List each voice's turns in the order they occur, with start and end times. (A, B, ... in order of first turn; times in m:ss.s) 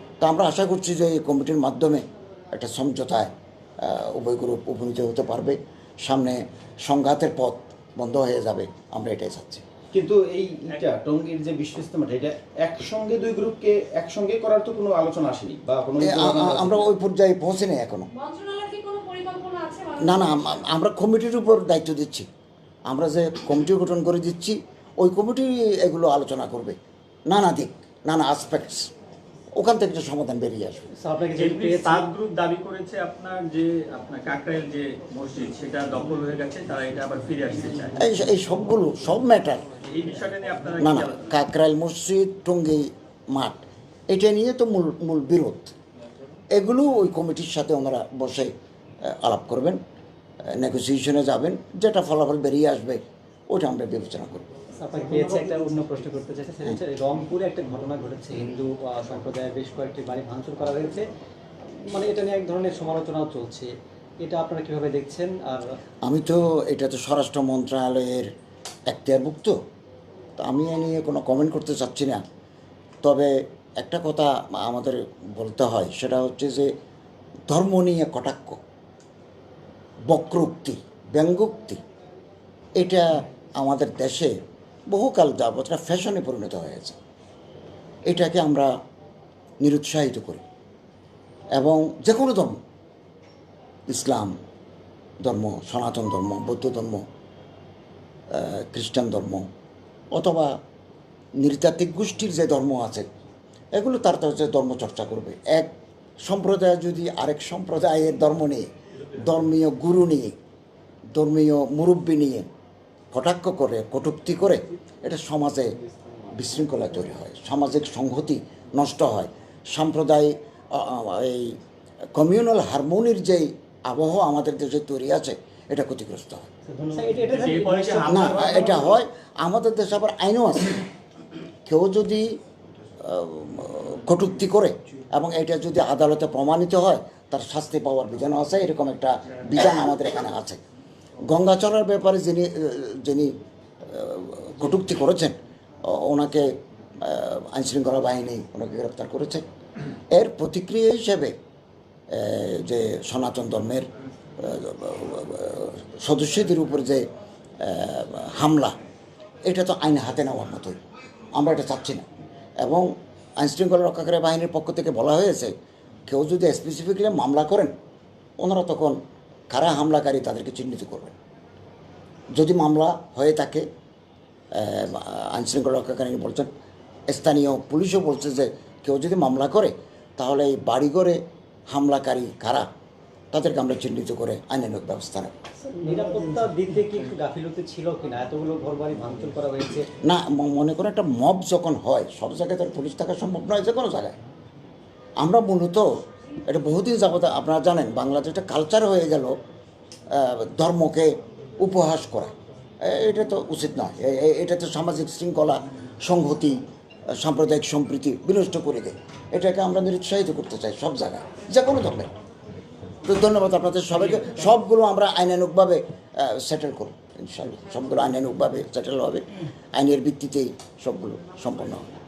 0:00.2-0:09.6 A
0:09.9-0:16.9 B
0:16.0-0:18.1 A
0:18.1-0:20.2 C
0:20.0-0:22.3 A
0:22.9-0:28.9 A
0:29.5-0:30.9 A
0:30.9-0:32.2 D
0:31.3-0:38.0 E
0:38.0-0:39.7 A
0:39.9-0:41.3 E
0:40.8-0:45.7 A
0:46.5-0:48.5 A
0:49.0-0:49.8 A
0:50.5-0:54.5 A
0:54.8-1:01.1 D
1:01.7-1:05.7 D
1:06.0-1:08.3 A
1:08.9-1:09.6 A
1:10.4-1:12.2 A
1:13.0-1:16.7 A
1:17.5-1:18.6 A
1:20.1-1:21.8 A
1:22.8-1:24.4 A
1:24.9-1:27.0 A
1:28.1-1:28.7 A
1:29.6-1:30.4 A
1:31.5-1:32.6 A
1:33.9-1:34.3 A
1:35.2-1:37.0 A
1:38.3-1:39.5 A
1:40.1-1:40.5 A
1:41.4-1:43.1 A
1:43.8-1:45.7 A
1:46.2-1:50.4 A
1:51.2-1:52.5 A
1:53.1-2:01.6 A
2:02.2-2:06.5 A
2:06.7-2:08.7 D
2:07.2-2:09.0 E
2:08.1-2:10.8 A
2:11.6-2:12.3 A
2:13.0-2:20.6 A
2:21.3-2:23.3 A
2:23.8-2:29.4 A
2:30.1-2:31.3 A
2:32.1-2:37.1 A
2:37.6-2:38.8 A
2:39.4-2:40.8 A
2:41.3-2:42.0 A
2:42.6-2:45.5 A
2:46.1-2:47.7 A
2:48.4-2:49.0 A
2:49.5-2:51.2 A
2:52.3-2:53.7 A
2:54.5-2:56.5 A
2:57.1-3:02.7 A
3:03.3-3:05.3 A
3:05.7-3:09.9 D
3:10.0-3:14.2 A
3:15.2-3:15.9 A
3:16.4-3:19.4 A
3:20.1-3:26.6 A
3:27.2-3:32.1 A
3:33.0-3:41.9 A